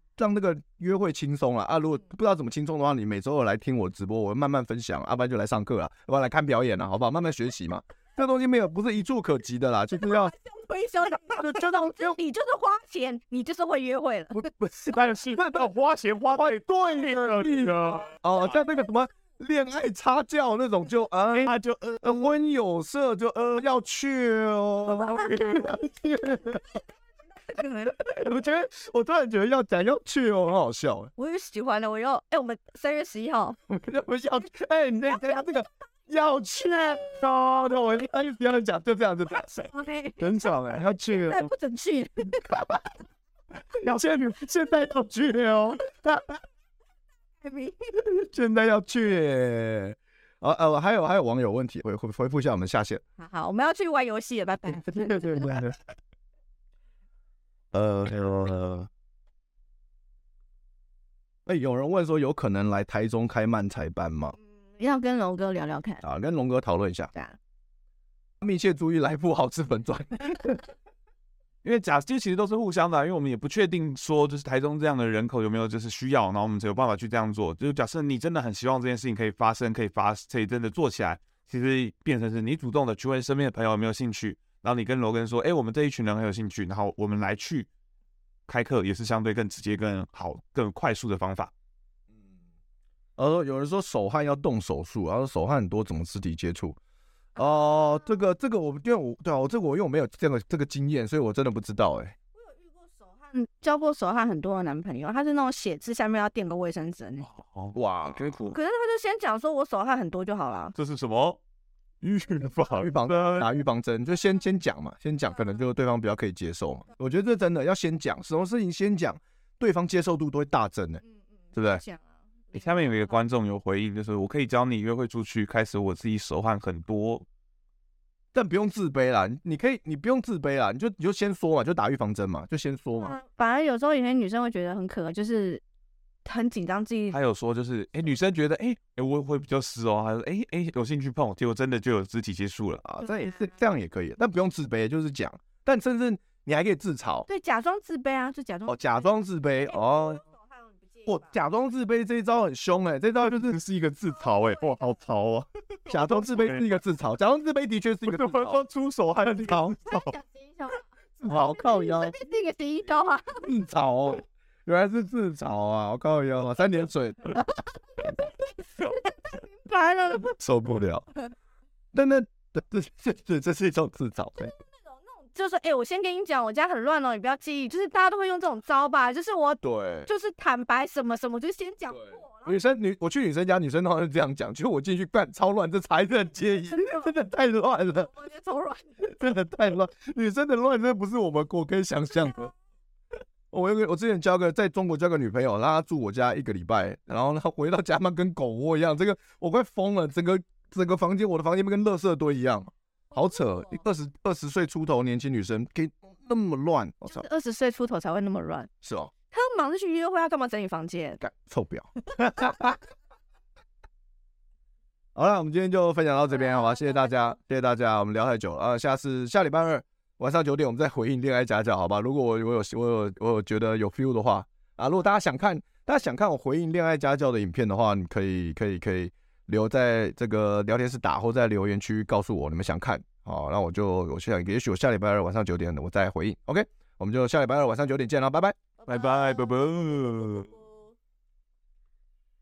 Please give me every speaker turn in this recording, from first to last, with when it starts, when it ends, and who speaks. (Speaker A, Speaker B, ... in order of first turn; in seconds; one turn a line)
Speaker A: 0.2-10.3
Speaker B: 10.0-14.4
Speaker A: 11.3-12.2
Speaker A: 14.3-15.7
Speaker C: 14.9-18.1
Speaker A: 16.3-26.8
Speaker C: 21.3-22.3
Speaker B: 27.5-27.9
Speaker A: 27.9-31.1
Speaker B: 31.2-33.6
Speaker A: 33.7-41.5
Speaker B: 39.6-40.3
Speaker B: 41.0-42.5
Speaker A: 42.4-42.9
Speaker A: 43.7-46.4
Speaker B: 47.4-47.9
Speaker A: 47.9-53.0
Speaker B: 53.2-55.4
Speaker A: 54.7-55.8
Speaker A: 57.7-58.9
Speaker A: 61.5-64.3
Speaker B: 64.6-66.0
Speaker A: 66.0-67.1
Speaker A: 68.4-70.6
Speaker C: 71.6-87.7
Speaker C: 88.5-91.5
Speaker A: 93.2-96.8
Speaker A: 97.4-102.1
Speaker B: 102.4-107.3
Speaker C: 107.3-108.5
Speaker A: 107.7-108.5
Speaker B: 108.5-110.7
Speaker C: 110.7-111.4
Speaker C: 112.0-113.5
Speaker A: 112.7-121.0
Speaker A: 121.5-121.8
Speaker B: 121.6-122.0
Speaker C: 122.5-127.2
Speaker A: 128.3-133.2
Speaker B: 133.0-135.6
Speaker B: 136.2-137.2
Speaker C: 137.1-142.8
Speaker A: 142.8-147.3
Speaker B: 147.3-149.0
Speaker A: 148.7-150.2
Speaker B: 149.7-151.2
Speaker A: 151.1-153.6
Speaker C: 153.2-156.6
Speaker A: 155.9-158.6
Speaker C: 158.0-160.1
Speaker A: 159.3-159.7
Speaker B: 159.9-163.4
Speaker A: 161.2-162.2
Speaker A: 163.4-167.4
Speaker B: 169.3-170.3
Speaker A: 170.3-171.1
Speaker A: 171.9-174.5
Speaker B: 174.9-182.5
Speaker A: 179.6-180.1
Speaker A: 182.4-188.1
Speaker B: 188.1-188.9
Speaker A: 189.0-192.5
Speaker A: 193.5-207.2
Speaker B: 203.3-203.8
Speaker B: 207.1-208.7
Speaker A: 208.8-209.1
Speaker B: 209.3-211.2
Speaker A: 211.2-212.8
Speaker A: 215.2-238.6
Speaker B: 238.8-240.9
Speaker C: 238.9-240.5